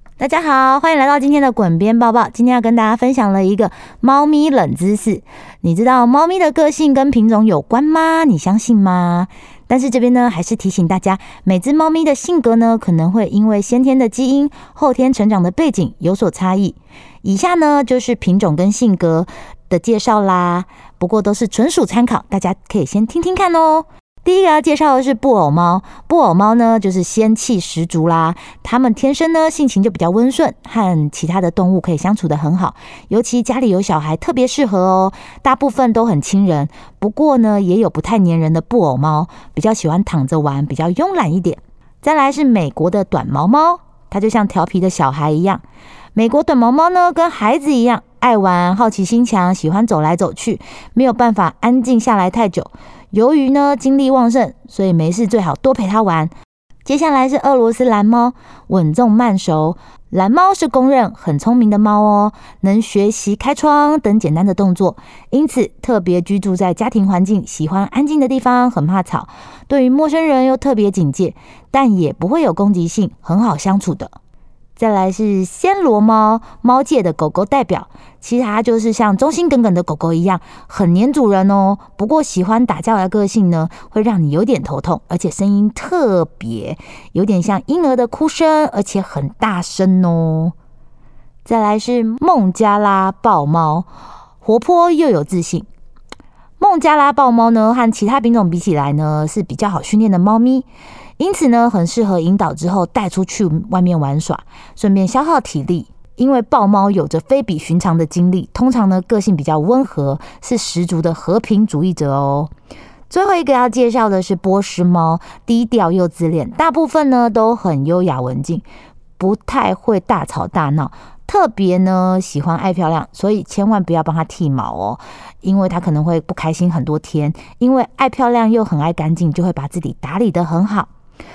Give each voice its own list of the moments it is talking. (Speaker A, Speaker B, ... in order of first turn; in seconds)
Speaker A: 0.2-45.6, 46.2-56.3, 56.9-74.1, 74.8-90.5, 91.5-93.9, 94.4-95.7, 96.6-100.7, 101.2-112.5, 113.1-118.6, 119.2-130.9